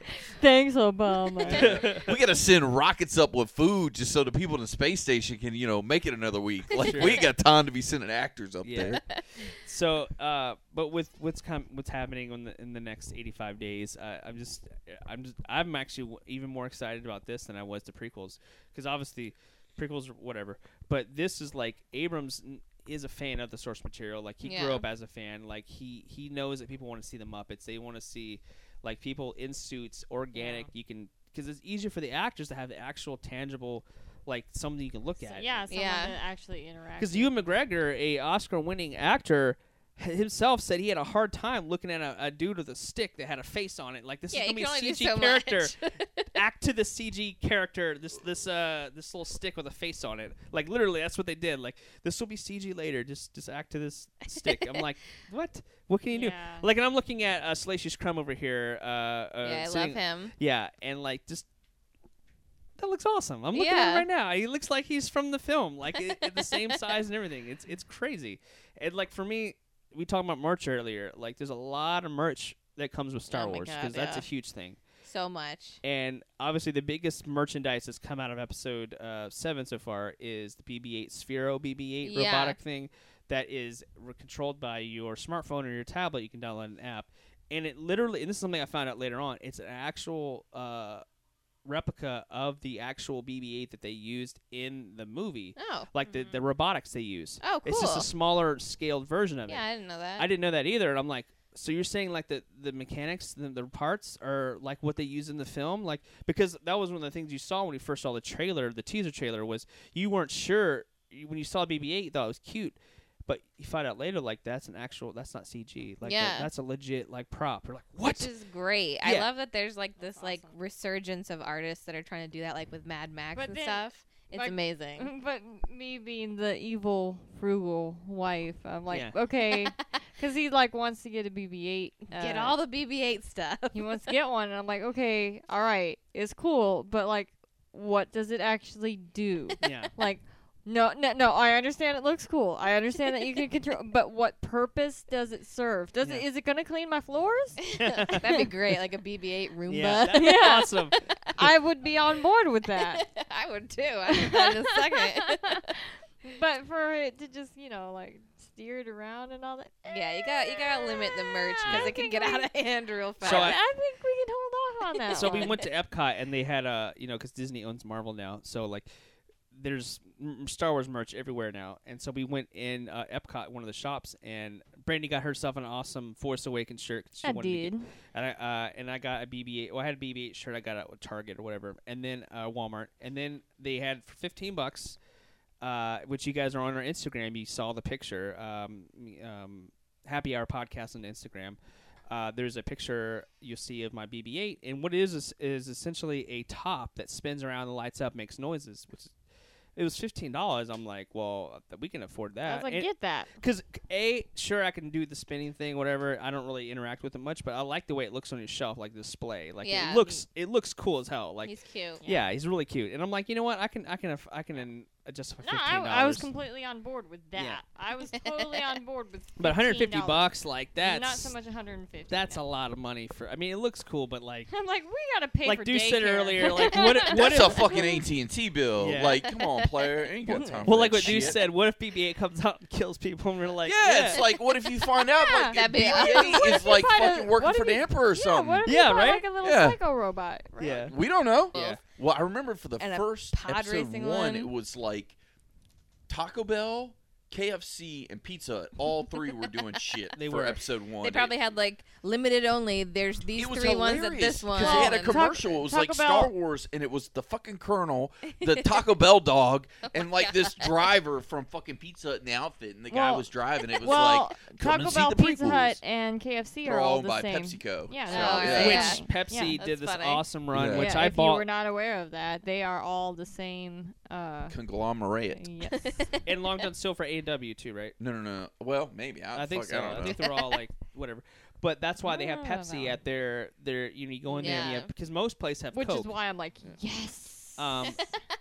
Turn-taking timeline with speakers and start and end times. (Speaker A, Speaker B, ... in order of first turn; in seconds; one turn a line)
Speaker A: 0.2-1.8
Speaker B: 1.5-9.0
Speaker C: 1.5-2.1
Speaker C: 6.8-7.3
Speaker C: 8.6-35.6
Speaker D: 24.4-24.9
Speaker D: 30.4-30.7
Speaker A: 35.2-37.3
Speaker D: 35.7-36.1
Speaker C: 37.0-45.8
Speaker D: 44.3-46.3
Speaker C: 46.3-61.5
Speaker D: 54.5-54.8
Speaker A: 56.1-56.7
Speaker D: 59.4-60.3
Speaker C: 62.8-74.8
Speaker D: 63.5-64.1
Speaker D: 73.3-74.3
Speaker D: 75.0-75.8
Speaker C: 75.8-91.0
Speaker D: 82.0-82.6
Speaker C: 91.7-99.6
Speaker D: 95.6-96.4
Speaker D: 97.4-98.1
Speaker D: 99.5-100.3
Speaker C: 100.2-118.3
Speaker D: 116.0-116.5
Speaker D: 118.0-125.1
Speaker A: 120.0-120.5
Speaker A: 123.4-132.6
Speaker D: 132.1-133.9
Speaker A: 133.7-148.5
Speaker C: 139.6-139.9
Speaker D: 147.7-150.7
Speaker C: 147.8-148.2
Speaker C: 149.7-151.5
Speaker A: 150.1-153.1
Speaker D: 152.8-155.7
Speaker A: 154.1-162.5
Speaker D: 159.9-163.6
Speaker C: 161.7-161.9
Speaker A: 163.2-165.6
Speaker C: 163.2-163.6
Speaker D: 165.1-165.6
Speaker C: 165.2-168.9
Speaker C: 169.5-185.0
Speaker A: 177.2-177.9
Speaker C: 185.6-191.6
Speaker C: 192.1-199.1
Speaker C: 199.8-202.9
Speaker A: 202.5-203.3
Speaker C: 203.4-211.5
Speaker D: 209.6-210.2
Speaker D: 211.4-212.0
Speaker C: 212.1-216.3
Speaker A: 215.4-222.4
Speaker C: 217.4-217.6
Speaker C: 219.4-221.3
Speaker C: 222.1-224.5
Speaker A: 224.5-228.1
Speaker C: 225.4-227.7
Speaker D: 226.4-227.0
Speaker B: 227.1-231.4
Speaker C: 228.8-229.2
Speaker A: 230.3-230.7
Speaker C: 230.7-234.2
Speaker B: 233.6-238.8
Speaker A: 235.1-240.9
Speaker D: 235.5-236.7
Speaker C: 238.7-239.3
Speaker B: 239.4-239.8
Speaker C: 240.6-240.9
Speaker B: 240.9-245.2
Speaker D: 241.5-241.8
Speaker C: 241.5-241.8
Speaker D: 242.8-244.5
Speaker B: 246.1-251.3
Speaker C: 250.2-250.6
Speaker D: 251.0-255.2
Speaker B: 253.3-265.8
Speaker A: 254.6-256.3
Speaker D: 258.4-258.8
Speaker D: 259.9-260.9
Speaker A: 262.9-269.6
Speaker B: 266.6-268.9
Speaker D: 268.1-269.1
Speaker C: 268.5-271.4
Speaker D: 269.6-270.2
Speaker B: 270.5-271.0
Speaker A: 270.7-274.6
Speaker B: 274.5-275.4
Speaker A: 275.4-276.1
Speaker D: 275.7-276.2
Speaker C: 276.2-278.0
Speaker B: 278.0-280.2
Speaker C: 279.3-286.1
Speaker D: 280.0-280.6
Speaker D: 282.1-282.6
Speaker A: 282.1-283.0
Speaker A: 284.3-284.8
Speaker D: 284.3-284.9
Speaker A: 285.7-287.8
Speaker C: 287.6-288.1
Speaker D: 287.9-288.2